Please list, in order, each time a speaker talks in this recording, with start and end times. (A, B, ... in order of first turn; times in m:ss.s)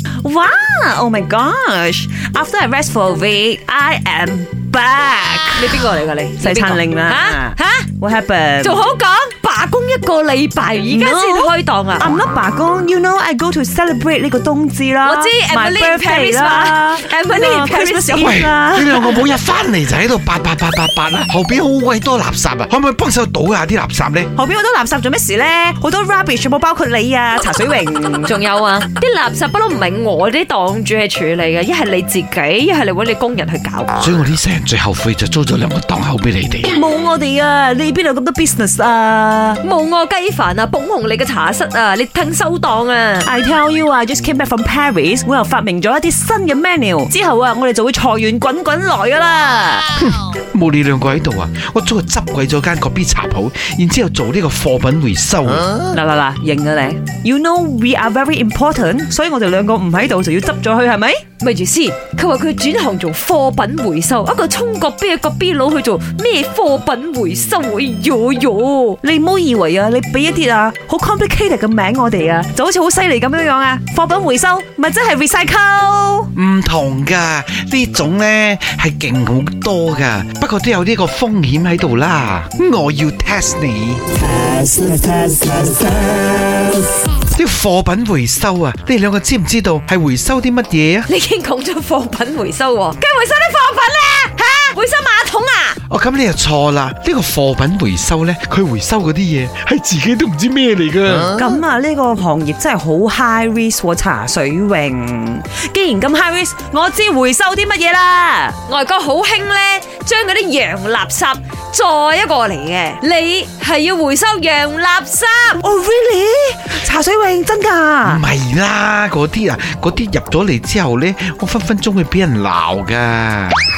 0:00.2-0:05.9 A
0:05.6-0:07.9 B
0:06.4-0:08.8 A
0:08.6-0:12.2 B
0:10.9-0:19.3 A
0:15.0-0:18.4 B
0:18.2-0:24.3 C
0:24.4-0:28.3 A
0:28.2-0:34.2 B
0:34.0-0:36.7 C
0:36.7-0:39.6 A
0:39.6-0:43.3 B
0:43.2-0:49.9 A
0:50.0-0:55.8 C
0:55.8-1:01.2 A
1:01.4-1:09.0 B
1:09.0-1:16.3 A
1:16.4-1:24.1 C
1:24.4-1:26.7 A
1:27.3-1:31.1 C
1:31.1-1:35.8 B
1:35.9-1:41.4 C
1:41.3-1:48.6 A
1:48.7-1:55.6 B
1:55.6-1:58.2 A
1:58.0-2:03.6 C